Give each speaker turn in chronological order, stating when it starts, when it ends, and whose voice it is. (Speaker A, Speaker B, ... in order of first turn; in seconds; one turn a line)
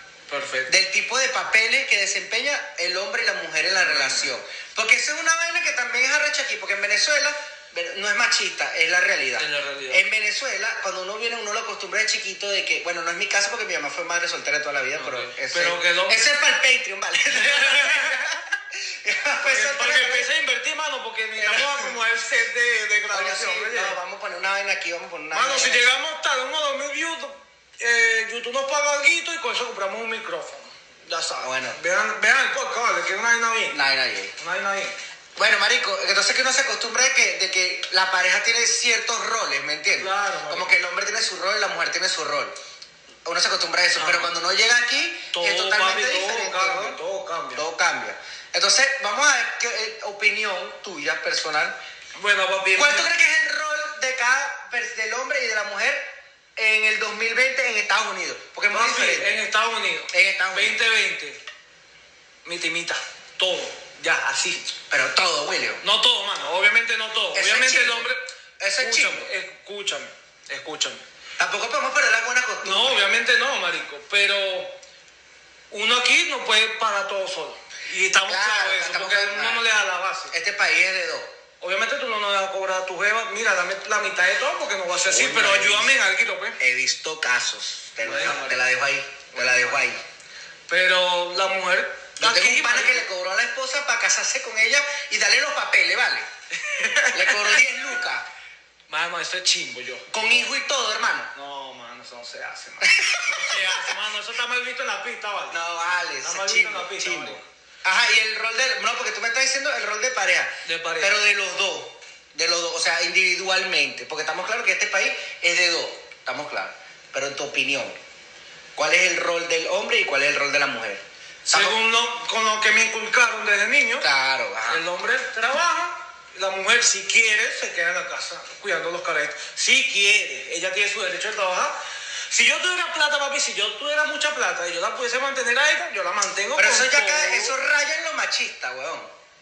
Speaker A: 0.3-0.7
Speaker B: 0.7-20.3
Speaker A: 3.7-4.3
Speaker A: 9.4-10.0
Speaker A: 14.9-16.3
Speaker A: 17.3-18.2
Speaker A: 19.4-24.0
Speaker B: 21.4-21.9
Speaker B: 23.1-26.0
Speaker A: 25.3-33.8
Speaker B: 31.4-31.8
Speaker B: 33.7-34.3
Speaker A: 34.4-35.0
Speaker B: 35.4-42.5
Speaker A: 40.0-40.7
Speaker B: 43.2-47.0
Speaker A: 44.0-44.4
Speaker A: 45.3-47.6
Speaker B: 47.5-51.8
Speaker A: 52.1-53.1
Speaker B: 52.7-59.4
Speaker A: 58.7-61.4
Speaker B: 60.1-60.8
Speaker A: 62.4-64.7
Speaker B: 64.9-65.8
Speaker A: 65.8-71.0
Speaker B: 67.3-69.3
Speaker B: 71.4-73.0
Speaker A: 72.6-74.8
Speaker A: 75.7-80.3
Speaker B: 78.3-79.6
Speaker B: 80.3-81.3
Speaker A: 81.6-86.6
Speaker B: 85.0-85.9
Speaker B: 86.6-90.0
Speaker A: 88.0-88.6
Speaker A: 89.3-89.9
Speaker A: 90.7-93.0
Speaker B: 92.2-96.2
Speaker A: 96.5-97.6
Speaker B: 97.1-98.2
Speaker A: 98.9-100.5
Speaker B: 100.1-101.3
Speaker A: 101.3-105.6
Speaker B: 102.8-103.9
Speaker B: 105.5-118.0
Speaker A: 106.2-107.5
Speaker A: 110.6-111.3
Speaker B: 118.8-121.8
Speaker A: 121.5-124.1
Speaker B: 124.0-124.8
Speaker A: 124.7-137.5
Speaker B: 136.6-139.1